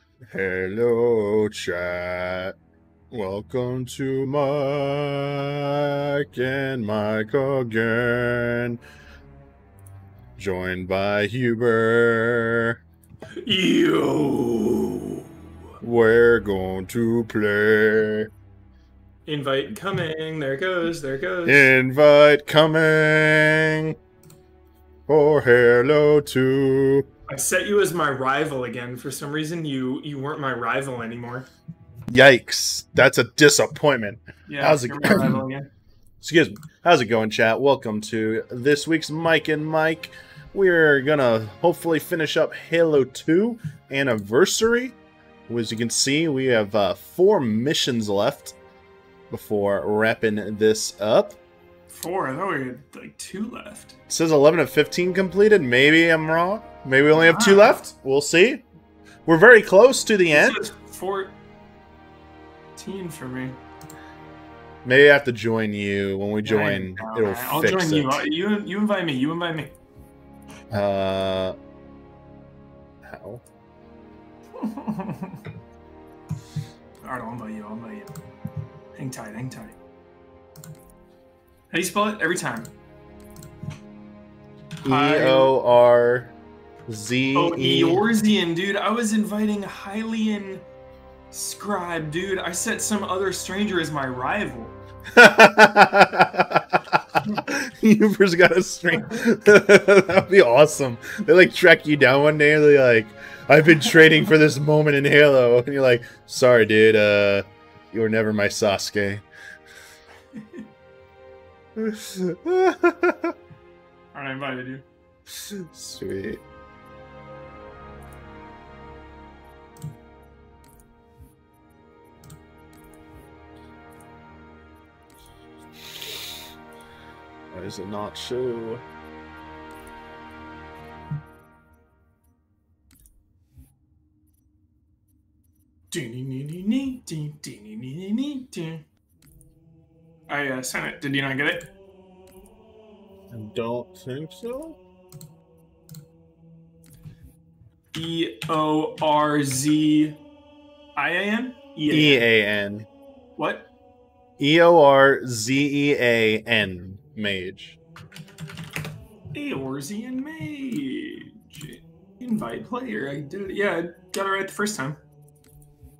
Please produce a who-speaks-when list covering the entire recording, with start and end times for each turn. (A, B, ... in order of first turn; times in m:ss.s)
0:00.3-0:02.5 A
0:03.1-0:08.8 A
0:10.4-0:12.8 A
0:13.3-0:15.2 B
0:15.8-0:18.3 A
0:19.2-0:21.7 B
0:21.4-0:23.9 A
0:25.1-0:27.1 A
0:27.3-0:31.5 B
0:32.1-0:35.4 A
0:34.5-0:35.7 B
0:36.2-0:45.0 A
0:45.5-0:48.5 A
0:49.3-0:51.4 A
0:51.9-0:54.0 B
0:54.1-0:58.6 A
0:57.1-0:57.8 B
0:59.2-1:00.7 A
1:00.3-1:01.4 B
1:02.8-1:03.6 B
1:04.8-1:08.2 A
1:06.4-1:09.7 B
1:10.7-1:11.6 A
1:13.0-1:13.4 A
1:14.5-1:15.4 B
1:17.0-1:18.1 B
1:19.0-1:19.8 B
1:21.7-1:22.7 B
1:24.8-1:25.5 B
1:24.8-1:26.3 A
1:26.9-1:28.0 A
1:27.3-1:30.6 B
1:31.3-1:34.8 B
1:35.1-1:49.2 A
1:43.9-1:44.2 B
1:50.3-1:50.7 B
1:51.8-1:53.3 A
1:54.1-1:54.8 B
1:55.5-1:56.4 A
2:07.5-2:08.8 A
2:15.9-2:18.8 B
2:20.3-2:21.7 B
2:23.3-2:24.8 A
2:27.9-2:30.2 B
2:31.0-2:32.3 B
2:31.9-2:32.9 A
2:33.4-2:33.7 B
2:34.4-2:37.8 A
2:39.3-2:45.0 B